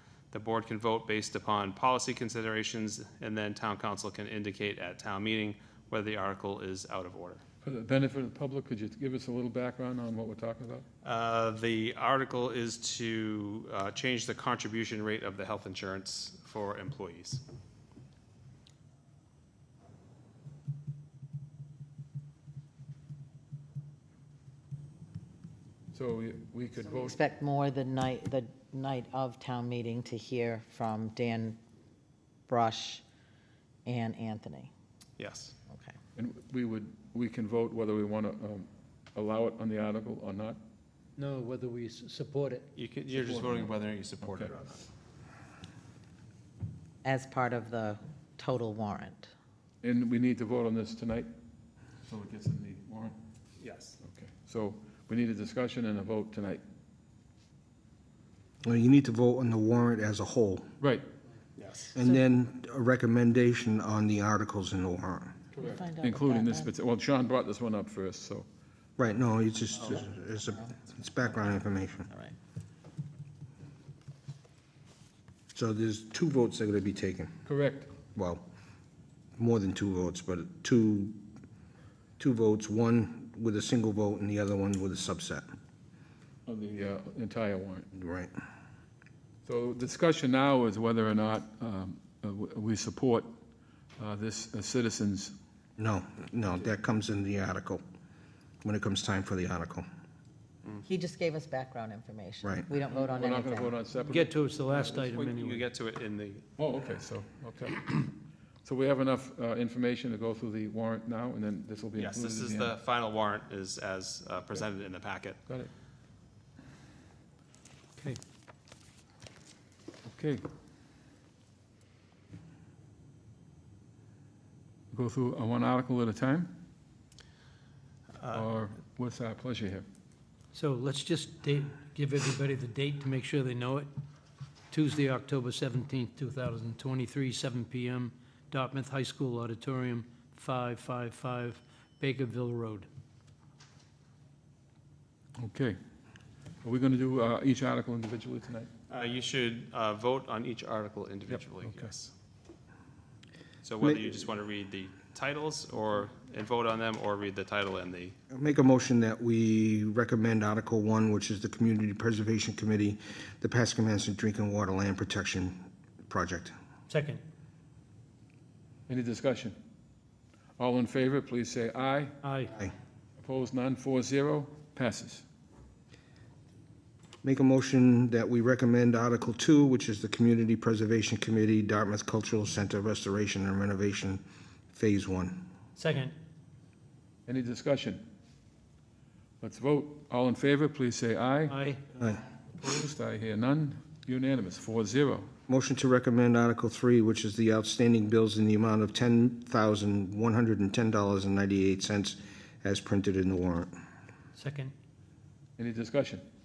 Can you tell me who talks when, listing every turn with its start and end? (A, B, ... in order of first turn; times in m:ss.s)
0:00.3-0:07.4 A
0:07.6-0:10.8 B
0:11.0-0:17.4 A
0:25.9-0:27.2 B
0:26.9-0:31.6 C
0:32.5-0:33.0 C
0:33.8-0:34.7 C
0:35.2-0:35.6 A
0:36.2-0:40.6 B
0:41.2-0:42.7 D
0:42.7-0:44.8 A
0:43.2-0:43.6 B
0:44.2-0:44.5 B
0:47.0-0:49.3 C
0:49.8-0:51.3 B
0:52.0-0:53.1 B
0:53.6-0:54.0 A
0:54.0-0:56.6 B
0:58.6-1:00.7 E
1:00.8-1:01.0 B
1:01.6-1:01.9 A
1:01.9-1:05.4 E
1:05.5-1:08.4 B
1:05.6-1:06.7 C
1:09.0-1:12.1 E
1:15.5-1:17.3 E
1:17.4-1:17.9 B
1:18.1-1:18.4 E
1:19.4-1:21.2 E
1:22.2-1:25.4 E
1:26.4-1:27.8 B
1:27.9-1:28.3 E
1:29.4-1:33.3 B
1:34.0-1:35.3 B
1:35.8-1:37.8 E
1:38.6-1:39.8 E
1:40.8-1:43.8 C
1:42.4-1:42.7 E
1:42.9-1:45.0 B
1:44.0-1:45.6 D
1:44.8-1:46.4 A
1:46.6-1:52.7 B
1:52.0-1:55.4 A
2:00.0-2:00.4 B
2:04.9-2:06.6 B
2:08.3-2:09.8 B
2:10.5-2:13.9 D
2:14.7-2:22.9 D
2:25.4-2:25.8 B
2:26.6-2:28.7 B
2:28.9-2:32.1 A
2:31.3-2:31.8 B
2:33.6-2:38.2 A
2:38.3-2:46.5 E
2:46.9-2:47.2 D
2:48.9-2:49.6 B
2:50.6-2:52.2 B
2:52.2-2:52.5 D
2:53.2-2:55.2 B
2:57.2-3:04.2 E
3:04.7-3:05.4 E
3:05.8-3:06.1 D
3:07.2-3:08.0 B
3:09.4-3:11.6 B
3:11.5-3:11.8 D
3:12.5-3:15.3 B
3:15.5-3:23.7 E
3:24.4-3:24.7 D
3:25.6-3:26.2 B